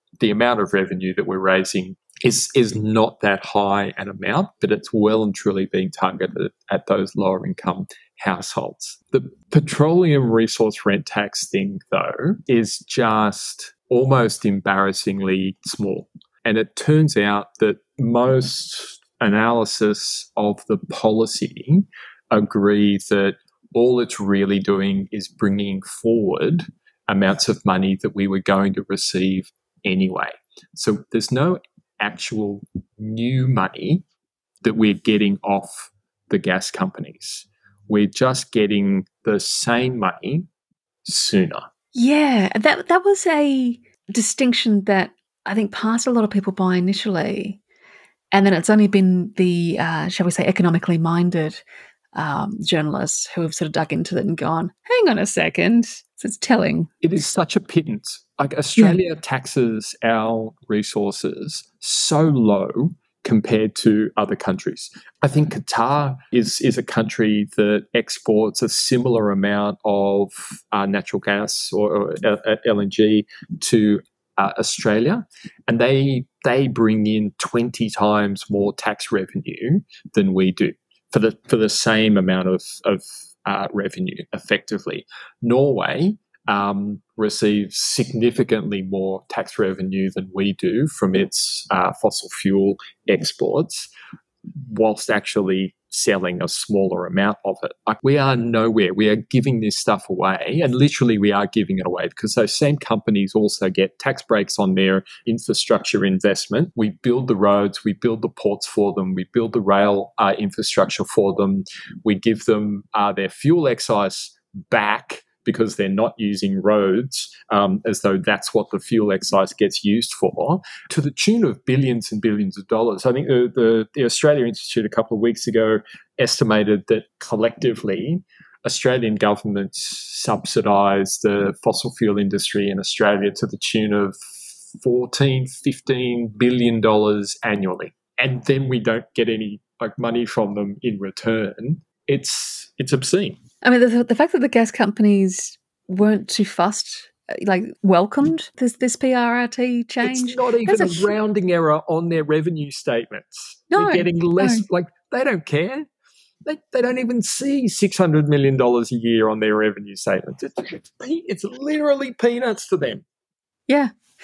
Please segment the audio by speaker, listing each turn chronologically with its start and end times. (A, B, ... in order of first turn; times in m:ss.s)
0:00.2-0:34.0 A
0:34.6-0:40.5 A
0:41.0-0:41.7 A
0:41.9-0:47.6 B
0:48.3-0:51.6 B
0:52.1-0:56.9 B
0:57.0-1:33.9 A
1:34.5-2:14.2 A
2:14.7-2:23.4 A
2:23.6-2:31.1 B
2:30.0-2:35.9 A
2:33.7-2:34.6 B
2:36.4-2:43.0 A
2:43.7-2:43.9 B